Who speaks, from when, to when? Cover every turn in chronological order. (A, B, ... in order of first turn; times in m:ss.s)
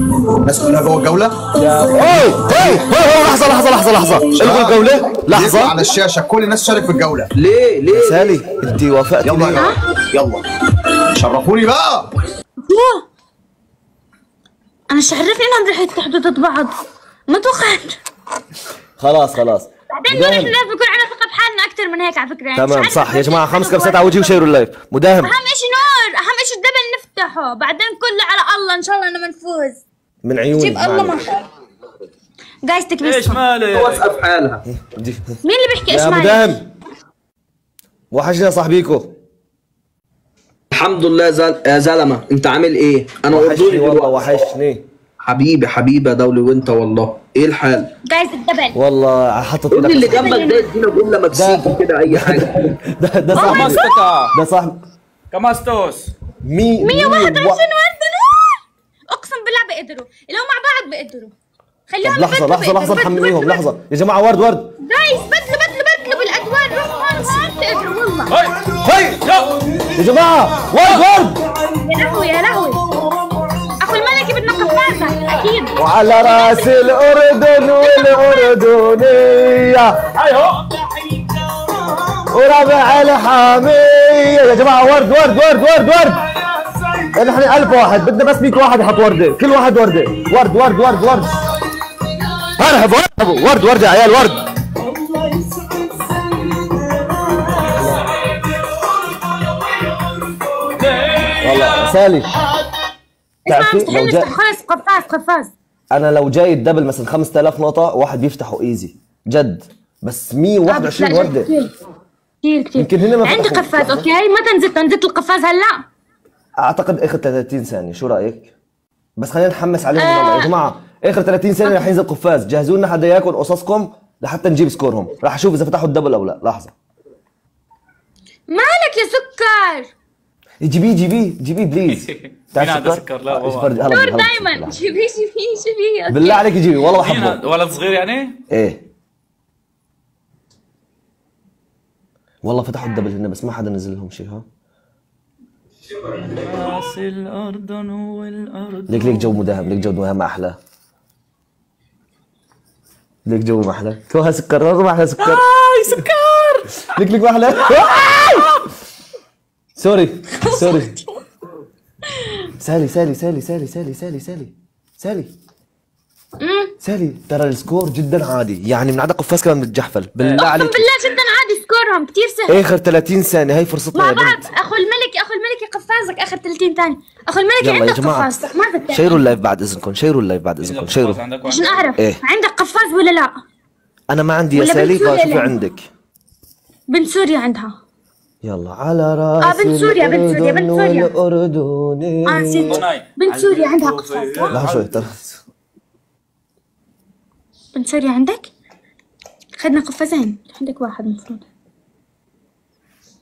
0:00.4-0:01.4 A
0:01.6-0:01.9 B
0:01.8-0:05.8 C
0:04.3-0:07.3 A
0:07.4-0:08.3 B
0:07.9-0:09.7 C
0:09.2-0:10.4 A
0:11.2-0:12.0 A
0:12.6-0:13.0 D
0:14.9-0:16.7 D
0:17.3-0:18.0 D
0:19.0-0:20.5 C
0:19.9-0:24.5 D
0:22.5-0:25.3 C
0:25.2-0:29.8 D
0:30.2-0:31.3 C
0:30.6-0:31.4 D
0:32.6-0:33.4 D
0:33.0-0:34.1 E
0:33.7-0:34.6 B
0:34.7-0:35.4 C
0:35.4-0:36.6 D
0:35.9-0:36.6 C
0:38.1-0:39.1 C
0:40.7-0:44.2 B
0:43.3-0:44.8 C
0:45.2-0:47.8 B
0:48.0-0:48.7 D
0:48.7-0:50.4 C
0:49.7-0:52.7 B
0:50.1-0:50.7 D
0:51.3-0:54.8 C
0:53.3-0:53.9 D
0:53.4-0:54.3 E
0:55.3-0:56.1 E
0:56.4-0:57.6 C
0:56.8-1:01.3 D
1:01.9-1:03.6 D
1:02.0-1:04.7 C
1:04.8-1:08.3 D
1:08.3-1:08.6 E
1:08.8-1:09.2 C
1:09.2-1:09.5 E
1:09.9-1:11.4 C
1:11.8-1:12.8 D
1:13.8-1:17.0 D
1:15.8-1:20.1 C
1:17.8-1:18.5 D
1:22.3-1:26.2 C
1:27.1-1:31.4 C
1:32.6-1:34.4 C
1:41.0-1:41.9 E
1:41.4-1:42.3 C
1:43.5-1:44.3 C
1:43.5-1:45.5 D
1:45.9-1:51.5 C
1:50.7-1:51.7 D
1:52.4-1:55.8 D
1:52.8-1:54.1 C
1:56.6-1:58.5 C
1:59.2-2:06.7 C
2:00.0-2:00.5 D
2:08.5-2:09.9 D
2:10.6-2:14.8 C
2:11.9-2:13.8 E
2:13.9-2:16.4 D
2:16.1-2:17.4 C
2:16.9-2:18.3 E
2:18.5-2:18.8 C
2:22.4-2:24.4 C
2:26.3-2:29.4 E
2:28.9-2:30.6 C
2:33.2-2:35.4 C
2:35.2-2:36.5 E
2:36.9-2:38.1 C
2:39.8-2:41.0 C
2:40.4-2:41.0 D
2:42.6-2:45.3 C
2:46.4-2:46.7 D
2:46.8-2:50.9 C
2:50.3-2:52.6 D
2:52.5-2:54.4 C
2:53.9-2:59.2 D
2:57.6-2:58.3 C
2:58.9-3:01.2 C
3:00.6-3:01.9 E
3:01.5-3:03.3 D
3:04.1-3:05.9 C
3:04.5-3:05.5 D
3:06.9-3:07.8 D
3:08.4-3:12.8 C
3:09.4-3:11.1 D
3:12.3-3:14.6 D
3:12.7-3:15.0 E
3:14.5-3:15.3 C
3:17.7-3:18.5 D
3:19.6-3:21.4 D